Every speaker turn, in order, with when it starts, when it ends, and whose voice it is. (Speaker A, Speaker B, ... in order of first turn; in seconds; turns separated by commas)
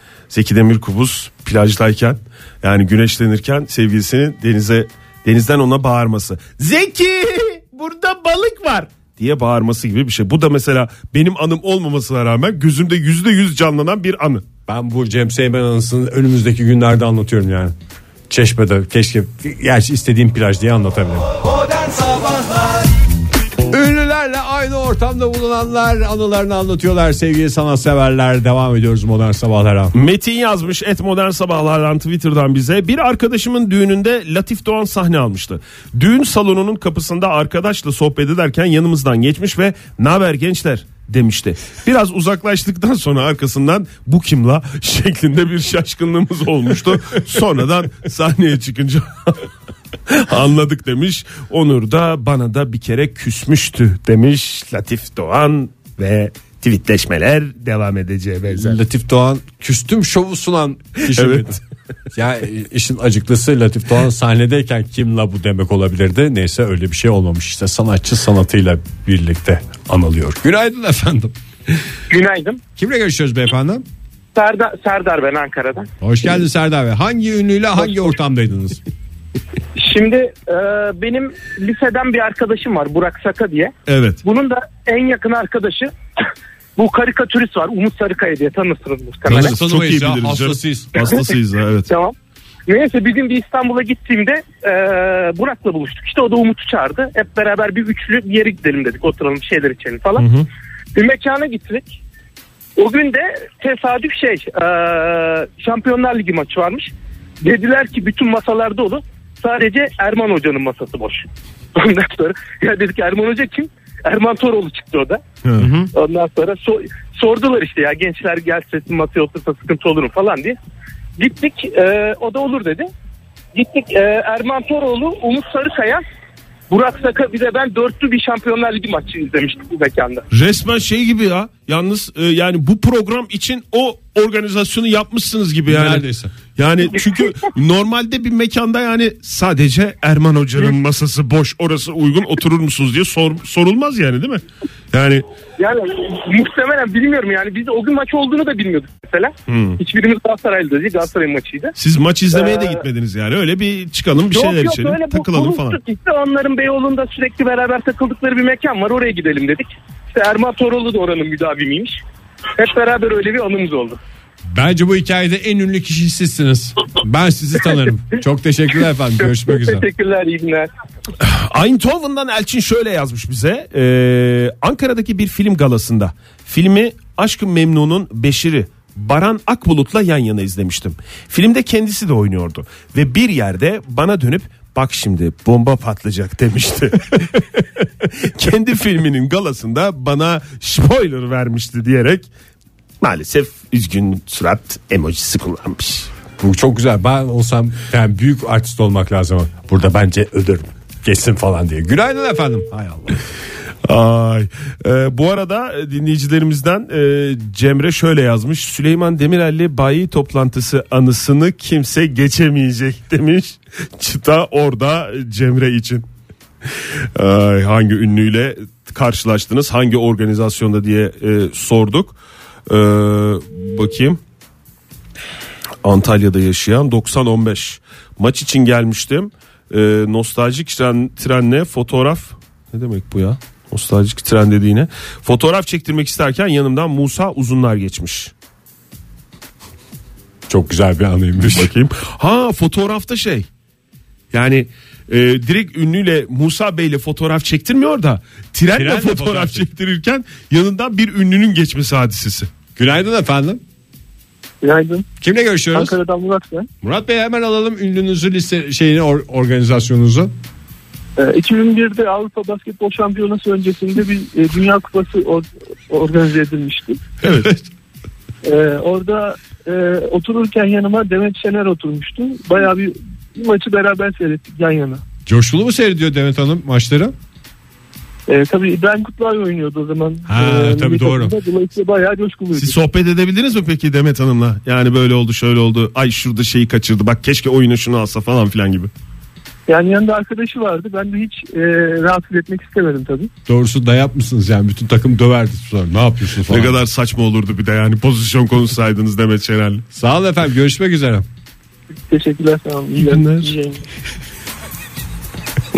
Speaker A: 0.3-14.4, Speaker B: 14.7-17.7, Speaker B: 18.3-21.3, Speaker B: 23.7-29.9, Speaker A: 29.9-49.5, Speaker B: 46.9-47.2, Speaker A: 50.1-58.8, Speaker B: 58.5-61.6, Speaker A: 61.1-61.5, Speaker B: 62.1-71.3, Speaker C: 72.1-72.6, Speaker B: 72.8-73.8, Speaker C: 74.3-75.9, Speaker B: 76.0-78.8, Speaker C: 79.8-85.9, Speaker A: 83.9-84.2, Speaker C: 86.8-89.5, Speaker B: 89.3-91.2, Speaker A: 89.3-91.9, Speaker C: 91.0-91.3, Speaker C: 91.9-92.1, Speaker C: 92.7-100.2, Speaker A: 100.2-100.5, Speaker C: 100.9-102.0, Speaker C: 102.8-106.9, Speaker C: 107.4-115.2, Speaker A: 115.4-115.7, Speaker B: 115.6-115.9, Speaker C: 115.9-120.6, Speaker C: 121.2-122.9, Speaker C: 123.5-126.0, Speaker C: 126.7-130.2, Speaker A: 130.3-136.0, Speaker B: 135.7-136.3, Speaker A: 136.6-145.2, Speaker C: 136.9-137.3, Speaker C: 145.6-151.7, Speaker A: 149.5-149.8, Speaker A: 151.8-155.8, Speaker C: 152.3-152.8, Speaker C: 154.3-162.0, Speaker C: 162.6-164.0, Speaker B: 164.5-169.8, Speaker C: 169.2-170.7, Speaker A: 171.2-192.3, Speaker A: 193.0-196.1, Speaker B: 196.4-203.2, Speaker A: 203.8-216.0, Speaker A: 217.1-224.2, Speaker A: 225.8-238.3, Speaker B: 240.5-241.7, Speaker A: 241.4-243.5, Speaker A: 244.3-252.5, Speaker B: 248.7-249.7, Speaker B: 252.8-253.6, Speaker D: 254.6-255.1, Speaker B: 255.2-255.9, Speaker D: 255.7-256.7, Speaker B: 256.8-260.3, Speaker D: 261.2-267.0, Speaker A: 267.2-267.5, Speaker B: 267.3-267.6, Speaker D: 268.4-275.0, Speaker B: 275.2-277.1, Speaker D: 278.3-282.8, Speaker B: 280.2-281.4, Speaker A: 282.5-288.9, Speaker D: 289.7-293.3, Speaker B: 293.5-296.8, Speaker A: 296.5-299.8, Speaker B: 299.9-301.2, Speaker D: 302.0-303.8, Speaker A: 303.0-303.5